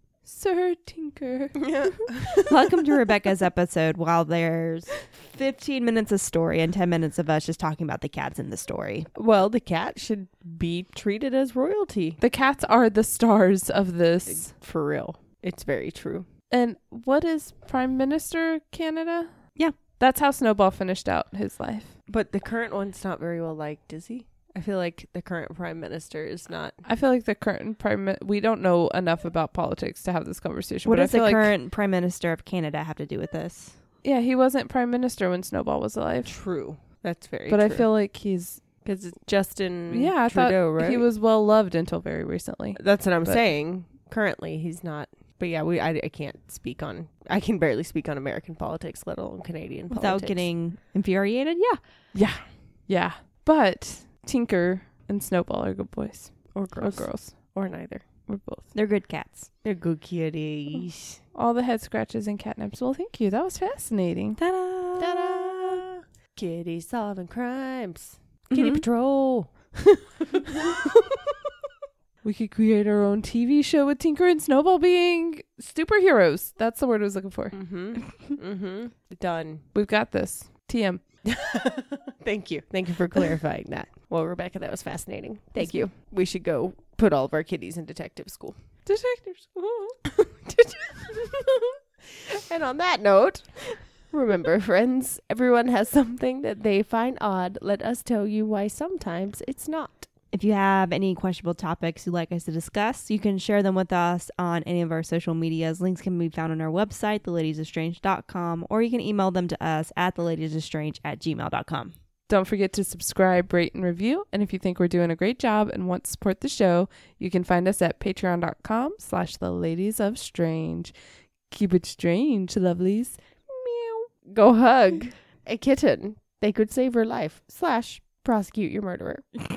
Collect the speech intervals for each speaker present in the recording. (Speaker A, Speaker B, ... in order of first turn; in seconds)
Speaker A: 0.3-2.1, 12.2-14.5, 16.5-21.9, 26.8-31.5, 34.0-36.4, 37.5-38.6, 39.9-43.4, 52.1-57.6, 58.3-58.7, 60.8-64.4, 72.2-77.6, 79.7-81.0, 85.6-85.8, 88.9-90.0, 112.3-120.9, 121.5-124.1
Speaker B: 1.6-2.4, 9.2-12.2, 14.3-16.3, 22.1-26.8, 36.2-37.9, 38.8-41.1, 42.8-50.5, 56.5-58.0, 59.6-61.2, 65.0-69.5, 77.5-79.6, 81.3-88.6, 90.1-100.1, 124.3-129.3
Speaker C: 2.4-9.1, 30.9-33.8, 49.9-51.8, 58.7-59.5, 64.4-65.8, 68.5-68.8, 100.3-111.9